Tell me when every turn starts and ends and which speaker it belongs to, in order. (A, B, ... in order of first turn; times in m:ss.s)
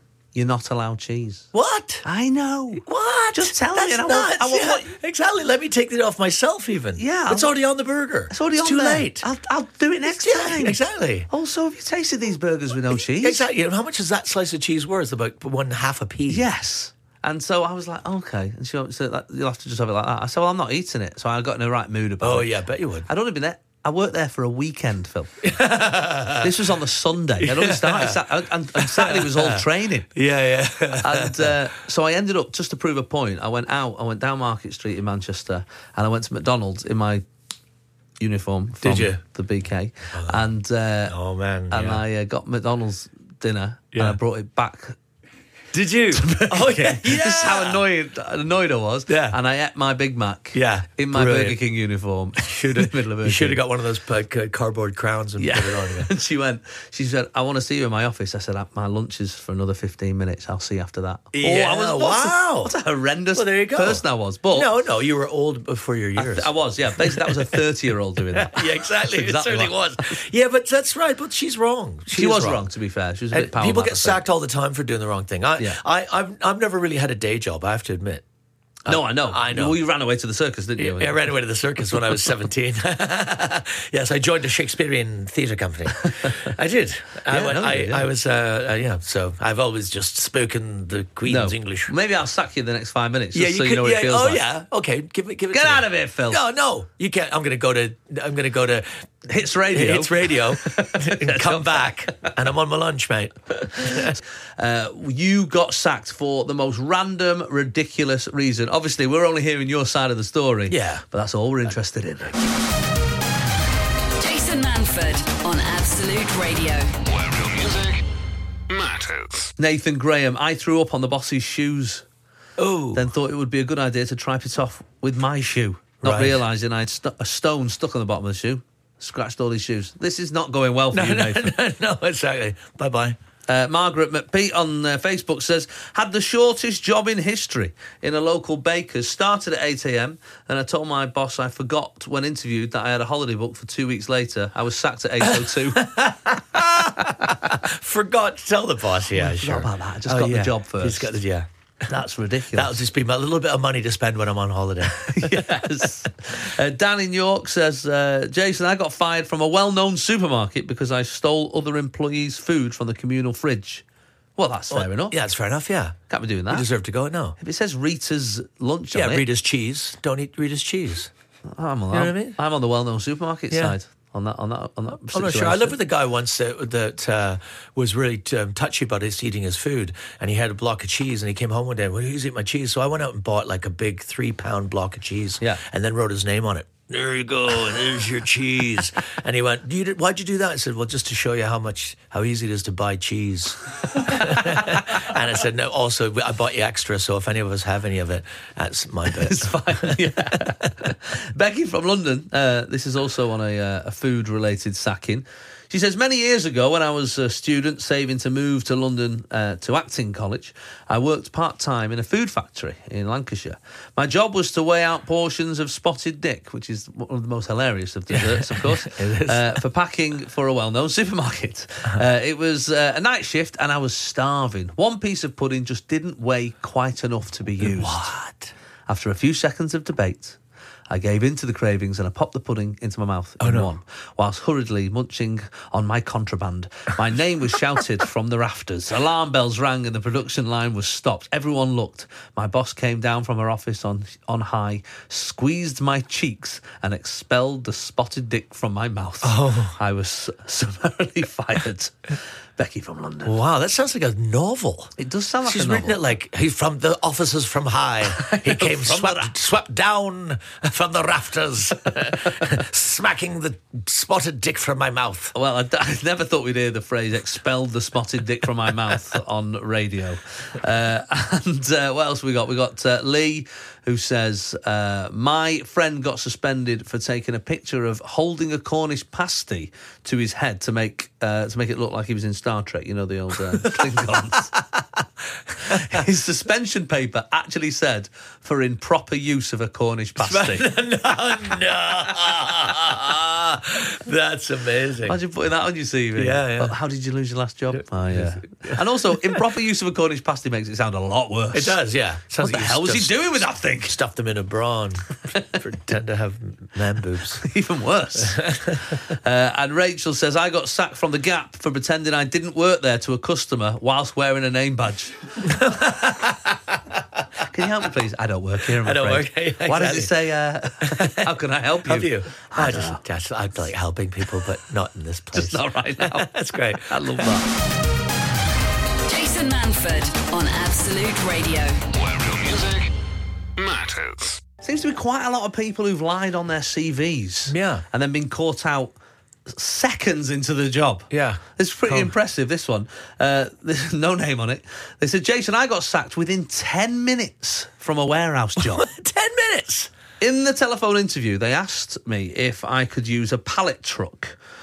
0:00.3-0:01.5 A
0:01.5-0:02.0 B
0:02.0-0:04.9 A
0:02.7-0:09.3 B
0:07.0-0:07.5 A
0:08.3-0:13.5 A
0:10.1-0:11.3 B
0:13.1-0:16.5 B
0:16.3-0:22.5 A
0:22.2-0:23.1 B
0:23.0-0:25.4 A
0:25.4-0:26.6 B
0:26.4-0:30.1 A
0:27.4-0:28.2 B
0:28.7-0:31.6 B
0:31.0-0:37.2 A
0:38.2-0:41.2 A
0:38.8-0:39.2 B
0:40.1-0:40.4 B
0:41.1-0:42.0 B
0:41.7-0:45.0 A
0:45.7-0:47.8 B
0:46.1-0:53.6 A
0:49.1-0:49.4 B
0:50.5-0:51.6 B
0:52.4-0:56.1 B
0:55.4-1:04.7 A
1:01.3-1:02.7 B
1:03.3-1:07.6 B
1:06.2-1:09.8 A
1:08.3-1:12.6 B
1:12.1-1:14.2 A
1:13.3-1:18.2 B
1:18.8-1:19.8 B
1:18.8-1:21.2 A
1:20.8-1:31.9 B
1:27.3-1:28.1 A
1:31.2-1:34.4 A
1:33.3-1:39.0 B
1:35.5-1:36.4 A
1:39.3-1:42.3 A
1:39.6-1:44.2 B
1:43.8-1:52.5 A
1:50.7-1:51.0 B
1:54.2-1:57.0 C
1:57.0-1:58.0 D
1:58.7-1:59.5 D
1:59.6-2:02.0 A
2:02.6-2:03.1 B
2:02.9-2:11.5 A
2:06.0-2:06.4 B
2:10.9-2:13.2 B
2:13.5-2:26.0 A
2:25.2-2:31.5 B
2:29.1-2:31.1 A
2:31.8-2:32.8 A
2:32.5-2:35.8 B
2:34.9-2:43.8 A
2:44.4-2:45.2 A
2:44.7-2:46.0 B
2:46.1-2:46.7 A
2:46.5-2:47.4 B
2:47.4-2:49.2 A
2:48.9-2:51.1 B
2:51.5-2:55.8 A
2:51.9-2:52.4 B
2:53.5-2:53.8 B
2:55.1-3:20.9 B
3:19.1-3:48.1 A
3:38.1-3:39.4 B
3:47.6-3:48.5 B
3:48.9-3:50.4 A
3:50.9-4:13.3 A
3:53.4-3:53.7 B
4:09.2-4:09.8 B
4:13.2-4:14.9 B
4:15.0-4:16.0 A
4:15.4-4:25.3 B
4:18.2-4:19.3 A
4:25.4-4:44.6 A
4:43.6-4:43.9 B
4:45.6-4:50.7 A
4:45.7-4:46.0 B
4:50.2-4:55.2 B
4:55.0-5:01.8 A
4:56.2-4:56.7 B
4:57.7-4:59.4 B
5:01.5-5:03.2 B
5:02.4-5:04.0 A
5:03.8-5:07.4 B
5:07.4-5:15.6 A
5:08.2-5:09.0 B
5:15.4-5:16.8 B
5:17.4-5:23.0 A
5:18.8-5:20.1 B
5:20.8-5:21.3 B
5:21.8-5:27.3 B
5:25.3-5:27.5 A
5:29.0-5:31.8 C
5:31.9-5:32.9 D
5:33.6-5:34.4 D
5:34.6-5:38.9 A
5:37.5-5:37.8 B
5:39.5-5:48.9 A
5:41.1-5:42.1 B
5:48.6-5:49.9 B
5:50.2-5:54.4 A